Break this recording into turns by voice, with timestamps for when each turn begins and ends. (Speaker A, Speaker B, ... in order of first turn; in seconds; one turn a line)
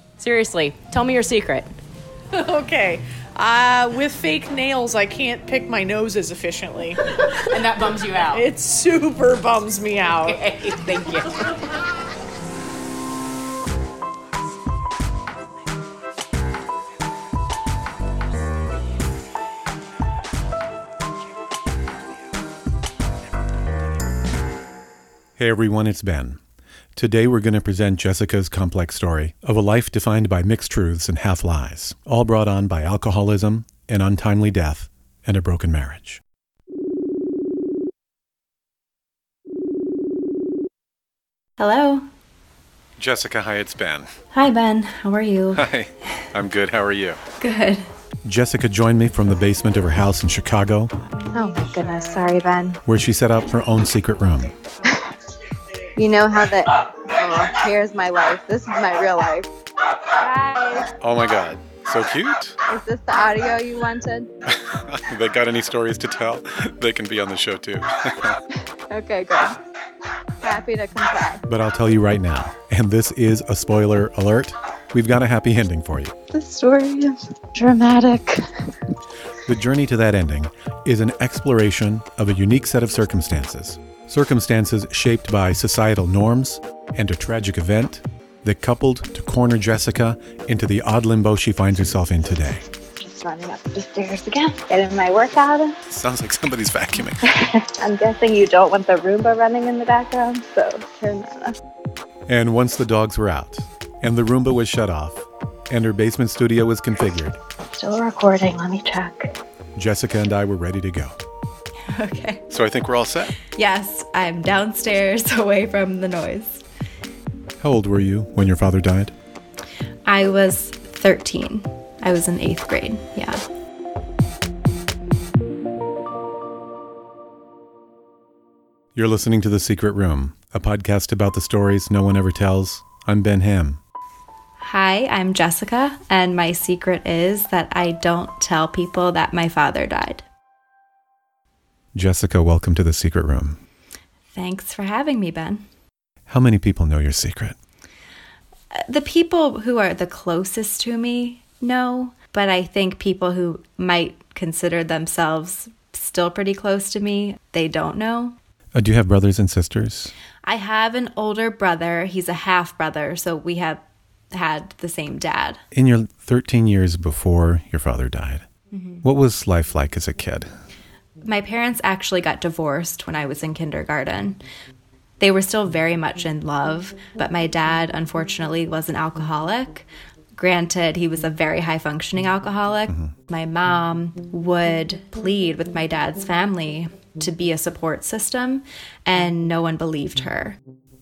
Speaker A: 0.2-1.7
Speaker B: 2.3-7.3
Speaker A: 7.5-8.4
Speaker B: 8.3-10.9
Speaker A: 10.2-11.4
Speaker C: 25.4-26.4
Speaker C: 26.9-36.2
Speaker D: 41.6-42.1
Speaker C: 43.0-44.1
Speaker D: 44.3-45.6
Speaker C: 45.5-47.2
Speaker D: 47.4-47.8
Speaker C: 48.2-50.9
Speaker E: 51.3-52.8
Speaker D: 51.3-52.2
Speaker C: 52.9-54.5
Speaker E: 56.0-59.5
Speaker E: 60.2-60.9
Speaker C: 61.0-62.6
Speaker E: 62.7-64.3
Speaker C: 64.5-68.4
Speaker E: 68.9-69.6
Speaker E: 70.4-71.4
Speaker C: 71.5-76.1
Speaker E: 76.3-78.7
Speaker C: 79.4-92.6
Speaker E: 93.0-95.8
Speaker C: 95.9-97.2
Speaker E: 97.3-101.6
Speaker C: 102.3-107.4
Speaker E: 107.7-109.3
Speaker C: 109.8-111.2
Speaker D: 111.8-112.4
Speaker C: 112.5-113.4
Speaker D: 113.5-116.6
Speaker C: 117.6-119.1
Speaker D: 120.0-123.5
Speaker C: 128.9-133.8
Speaker D: 134.6-140.2
Speaker C: 141.9-143.6
Speaker D: 144.3-145.6
Speaker C: 146.3-147.6
Speaker D: 148.7-158.3
Speaker C: 158.7-160.1
Speaker D: 160.4-163.8
Speaker D: 164.3-165.6
Speaker C: 165.7-168.4
Speaker D: 168.7-169.0
Speaker C: 169.0-170.5
Speaker D: 171.2-174.4
Speaker D: 175.2-190.6